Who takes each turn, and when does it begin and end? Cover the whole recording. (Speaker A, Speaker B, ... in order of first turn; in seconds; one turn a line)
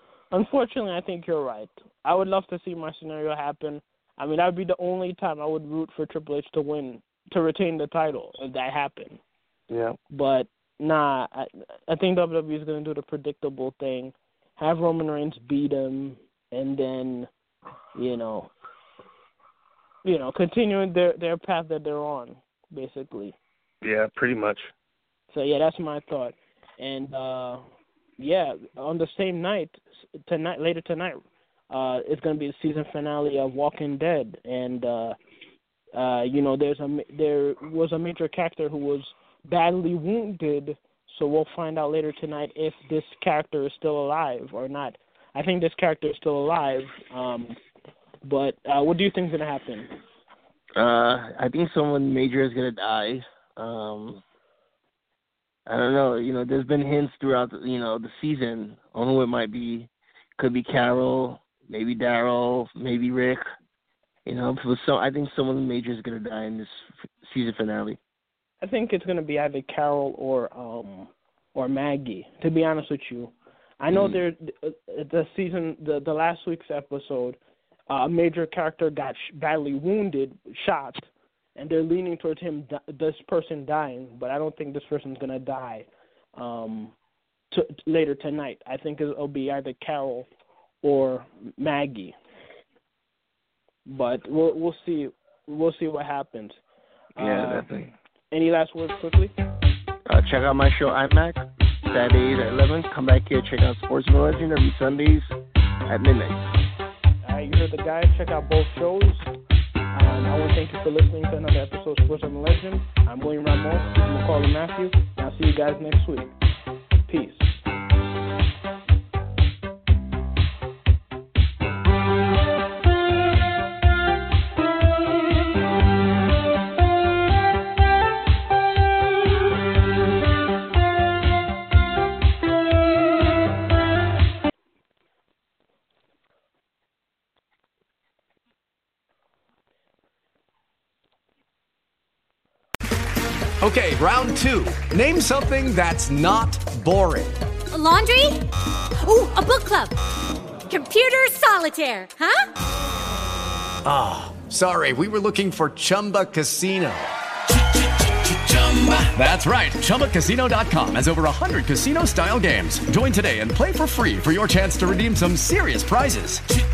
Speaker A: 0.3-9.2
Speaker B: 9.7-10.0
Speaker A: 10.1-17.3
Speaker A: 17.9-18.5
Speaker A: 20.1-23.4
Speaker B: 23.8-24.6
Speaker A: 25.3-27.6
Speaker A: 28.2-35.2
Speaker A: 35.9-47.6
Speaker A: 48.2-50.0
Speaker B: 50.8-54.2
Speaker B: 55.7-63.5
Speaker B: 64.3-68.0
Speaker A: 68.6-77.4
Speaker A: 77.9-87.0
Speaker A: 87.5-90.3
Speaker A: 90.8-92.2
Speaker A: 93.9-96.6
Speaker A: 97.2-97.7
Speaker B: 97.2-97.9
Speaker A: 98.3-99.4
Speaker B: 100.1-105.3
Speaker B: 105.9-106.4
Speaker A: 107.2-109.3
Speaker A: 109.9-116.3
Speaker A: 117.1-117.5
Speaker C: 143.6-147.4
Speaker D: 147.7-148.4
Speaker D: 149.0-149.9
Speaker D: 150.7-152.5
Speaker C: 153.8-157.1
Speaker C: 158.2-166.5